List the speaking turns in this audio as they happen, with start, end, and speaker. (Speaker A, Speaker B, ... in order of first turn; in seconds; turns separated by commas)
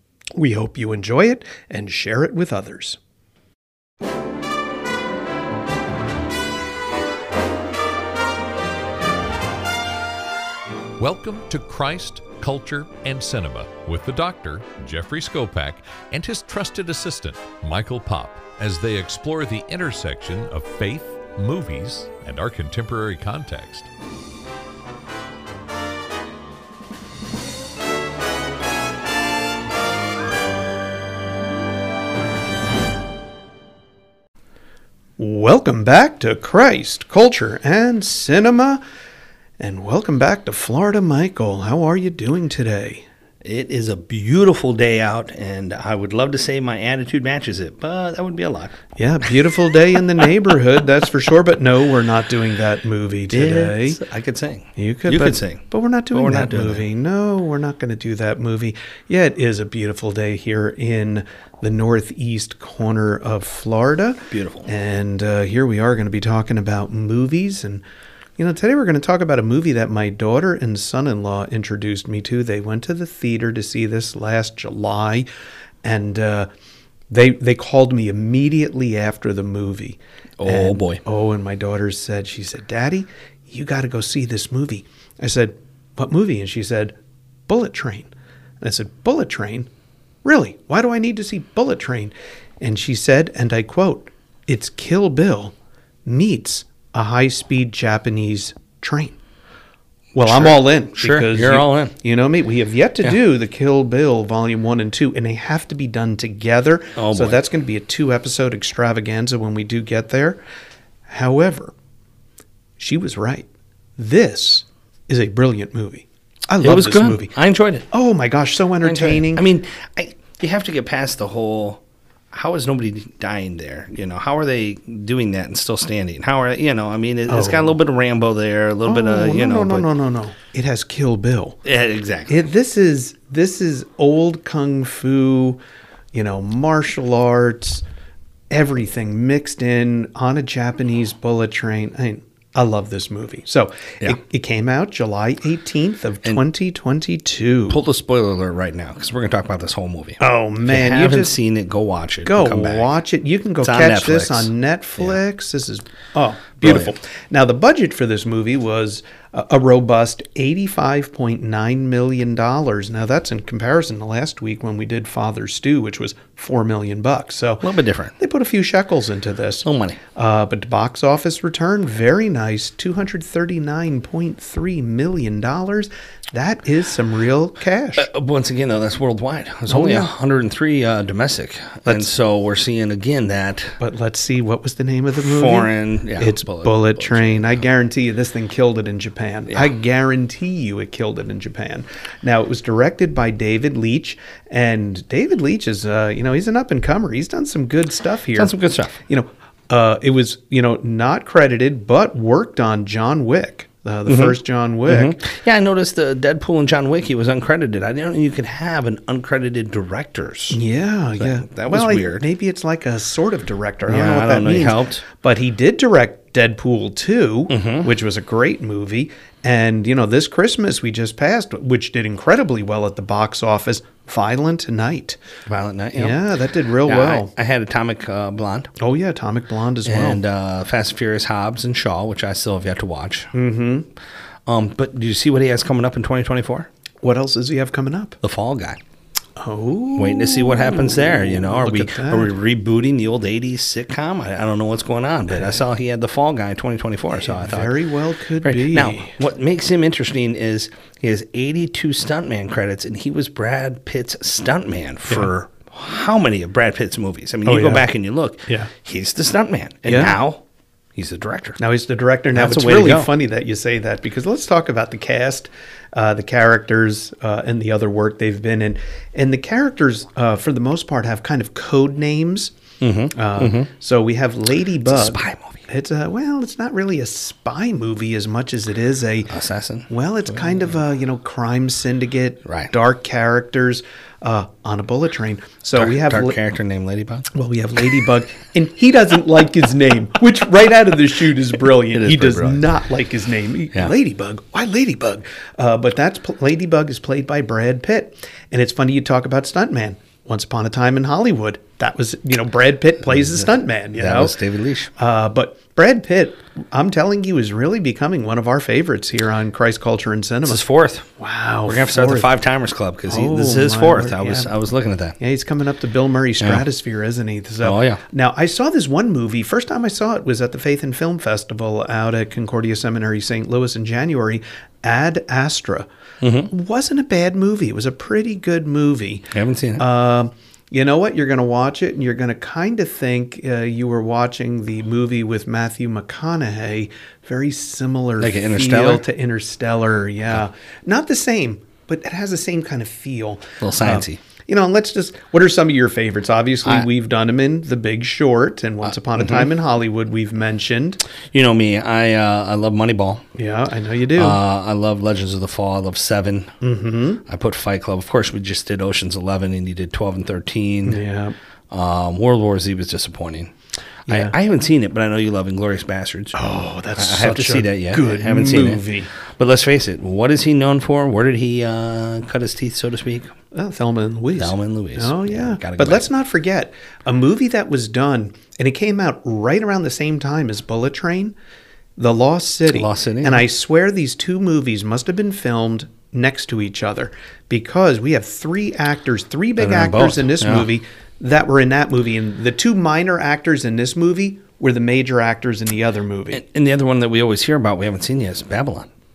Speaker A: 0.4-3.0, Speaker B: 11.0-23.9, Speaker A: 35.2-38.8, Speaker A: 39.6-43.0, Speaker C: 43.4-48.8, Speaker A: 49.0-54.0, Speaker C: 53.3-56.9, Speaker A: 54.8-67.8, Speaker C: 64.3-64.7, Speaker A: 68.4-75.3, Speaker A: 75.8-76.5, Speaker A: 77.1-87.0, Speaker C: 80.4-81.0, Speaker A: 87.5-88.1, Speaker A: 88.6-89.7, Speaker A: 90.2-95.5, Speaker A: 96.1-99.2, Speaker A: 100.2-110.4, Speaker C: 100.2-101.9, Speaker C: 107.0-107.4, Speaker A: 111.1-111.7, Speaker A: 112.8-117.3, Speaker C: 116.6-117.8, Speaker A: 117.9-119.4, Speaker C: 118.8-121.8, Speaker C: 122.3-129.9, Speaker A: 127.3-127.8, Speaker A: 128.9-131.6, Speaker C: 131.6-132.4, Speaker A: 132.3-135.6, Speaker A: 136.1-137.8, Speaker A: 138.5-147.8, Speaker C: 147.7-152.9, Speaker A: 150.2-151.3, Speaker A: 152.2-178.1, Speaker C: 153.6-155.2, Speaker C: 156.6-156.9, Speaker C: 167.6-168.2, Speaker C: 169.6-170.0, Speaker C: 178.0-183.8, Speaker A: 179.7-180.1, Speaker A: 183.8-198.5, Speaker C: 185.2-187.6, Speaker C: 198.3-198.9, Speaker A: 199.1-205.2, Speaker C: 204.1-210.6, Speaker A: 210.5-225.2, Speaker C: 211.2-212.3, Speaker C: 213.9-215.0, Speaker C: 217.5-217.9, Speaker C: 225.5-226.2, Speaker A: 225.9-227.3, Speaker C: 226.8-228.7, Speaker A: 228.8-230.2, Speaker C: 229.8-233.3, Speaker A: 233.3-233.9, Speaker C: 234.5-236.7, Speaker A: 237.0-238.2, Speaker C: 238.2-238.8, Speaker A: 239.4-242.3, Speaker C: 240.0-247.7, Speaker A: 245.3-245.6, Speaker A: 247.1-249.2, Speaker C: 248.4-260.4, Speaker A: 257.4-257.9, Speaker A: 259.9-260.2, Speaker C: 261.0-261.6, Speaker A: 261.6-272.5, Speaker C: 262.4-263.1, Speaker C: 272.8-273.7, Speaker A: 273.1-279.3, Speaker C: 274.8-275.7, Speaker C: 279.3-279.9, Speaker A: 279.9-286.4, Speaker C: 282.5-282.7, Speaker C: 285.8-287.3, Speaker A: 287.3-304.4, Speaker C: 291.9-292.6, Speaker C: 303.1-304.9, Speaker A: 305.0-310.6, Speaker C: 310.5-311.1, Speaker A: 311.2-312.3, Speaker C: 311.7-315.2, Speaker A: 313.1-314.5, Speaker A: 315.2-325.9, Speaker C: 317.6-318.0, Speaker C: 326.2-326.5, Speaker A: 326.5-351.0, Speaker C: 329.3-329.8, Speaker C: 338.2-339.0, Speaker C: 343.6-344.2, Speaker C: 349.2-349.5, Speaker C: 351.3-353.2, Speaker A: 353.4-354.4, Speaker C: 354.1-356.5, Speaker A: 356.6-357.2, Speaker C: 357.3-361.0, Speaker A: 360.9-361.4, Speaker C: 361.7-363.5, Speaker A: 364.1-364.3, Speaker C: 364.1-366.4, Speaker A: 366.3-369.1, Speaker C: 367.0-373.3, Speaker A: 373.5-381.4, Speaker C: 374.4-376.1, Speaker A: 382.0-396.4, Speaker C: 382.7-383.4, Speaker C: 389.6-390.7, Speaker C: 396.3-398.9